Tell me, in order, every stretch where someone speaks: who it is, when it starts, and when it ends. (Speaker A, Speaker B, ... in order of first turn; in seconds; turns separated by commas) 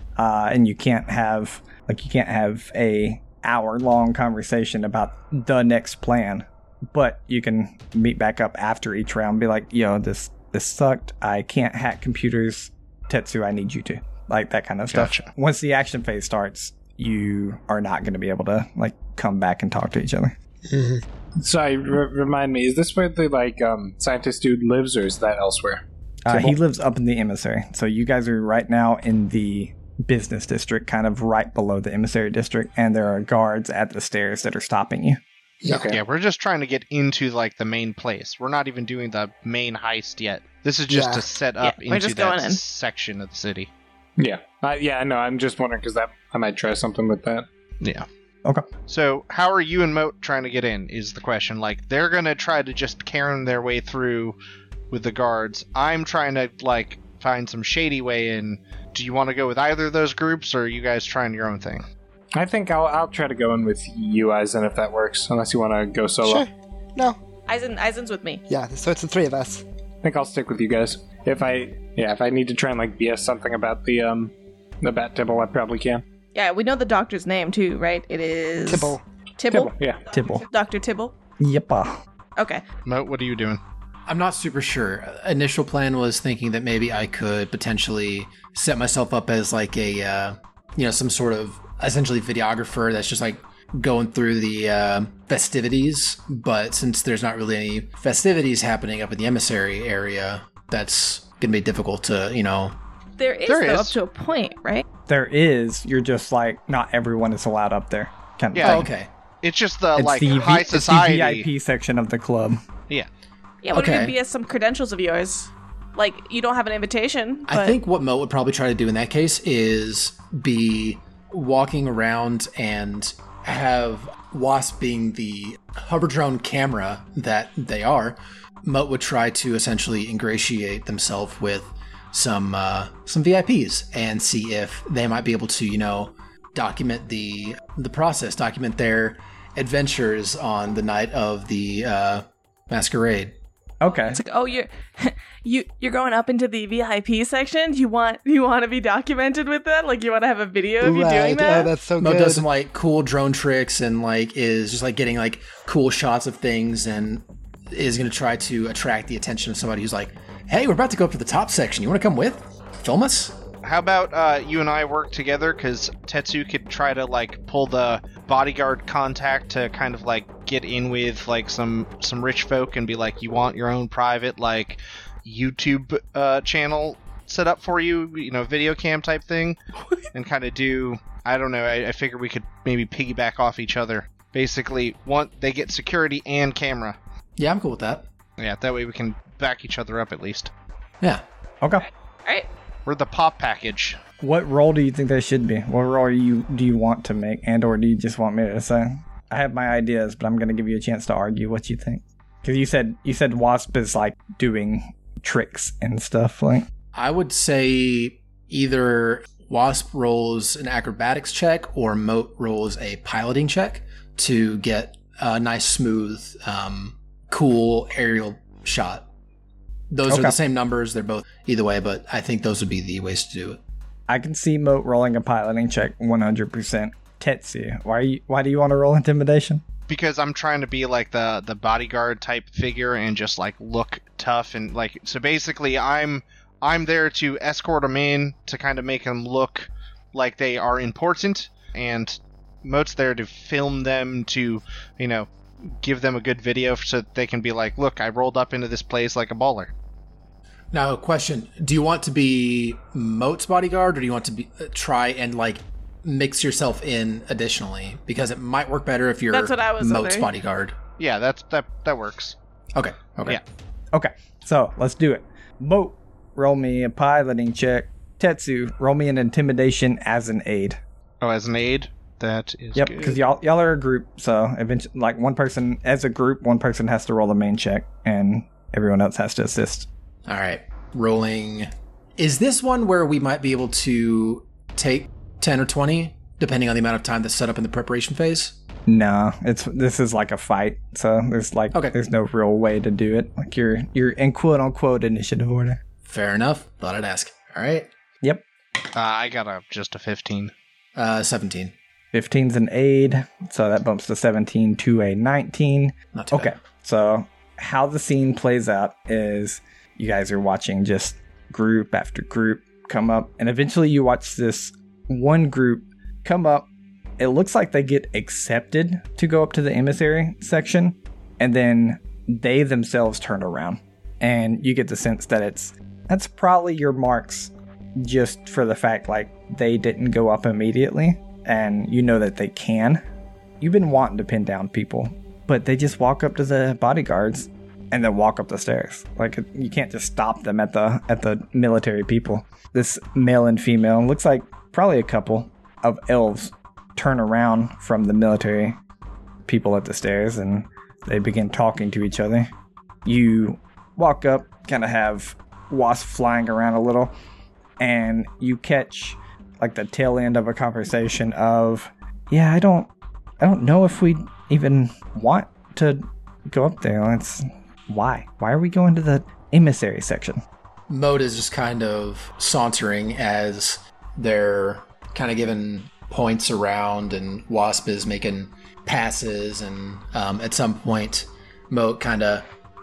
Speaker A: 0.2-20.4, Speaker B: 14.9-15.3, Speaker C: 20.7-21.0, Speaker D: 21.4-26.4, Speaker A: 26.3-35.2, Speaker C: 35.6-35.9, Speaker D: 35.7-36.0, Speaker B: 35.9-43.7, Speaker C: 40.9-41.2, Speaker E: 41.6-42.6, Speaker D: 44.2-47.5, Speaker B: 47.8-48.1, Speaker B: 48.9-54.4, Speaker B: 54.9-61.9, Speaker D: 62.4-66.5, Speaker C: 66.2-67.2, Speaker E: 67.5-68.4, Speaker C: 68.5-69.6, Speaker D: 70.0-76.0, Speaker E: 76.3-79.7, Speaker C: 78.7-79.0, Speaker D: 79.5-80.0, Speaker A: 80.1-80.5, Speaker E: 80.4-81.1, Speaker A: 81.4-82.0, Speaker E: 82.4-82.6, Speaker B: 82.9-83.6, Speaker F: 84.1-102.8, Speaker E: 103.2-104.8, Speaker B: 103.5-104.0, Speaker A: 105.1-108.9, Speaker B: 108.5-108.9, Speaker F: 108.6-109.1, Speaker B: 109.4-111.5, Speaker A: 110.0-112.6, Speaker E: 113.6-117.8, Speaker F: 113.7-114.2, Speaker F: 117.5-143.3, Speaker A: 143.8-144.2, Speaker E: 143.9-151.7, Speaker C: 150.8-152.4, Speaker F: 152.0-163.4, Speaker B: 163.6-179.6, Speaker B: 180.1-187.0, Speaker F: 187.4-188.1, Speaker B: 188.4-190.5, Speaker A: 191.6-191.9, Speaker B: 192.9-194.0, Speaker A: 194.2-206.7, Speaker F: 206.9-219.1, Speaker F: 219.9-223.6, Speaker A: 220.1-220.4, Speaker A: 224.1-229.6, Speaker B: 229.9-249.7, Speaker F: 250.7-260.8, Speaker E: 259.3-260.3, Speaker B: 261.0-262.4, Speaker F: 262.8-263.4, Speaker A: 263.9-270.8, Speaker B: 271.2-273.2, Speaker A: 272.8-279.9, Speaker F: 280.3-288.6, Speaker A: 288.9-295.8, Speaker F: 296.0-297.9, Speaker B: 298.9-300.5, Speaker F: 301.0-301.7, Speaker A: 302.1-316.7, Speaker F: 306.1-306.5, Speaker A: 317.2-333.0, Speaker A: 333.6-348.8, Speaker A: 349.4-352.5, Speaker A: 353.1-357.1, Speaker A: 357.8-370.4, Speaker F: 370.9-382.5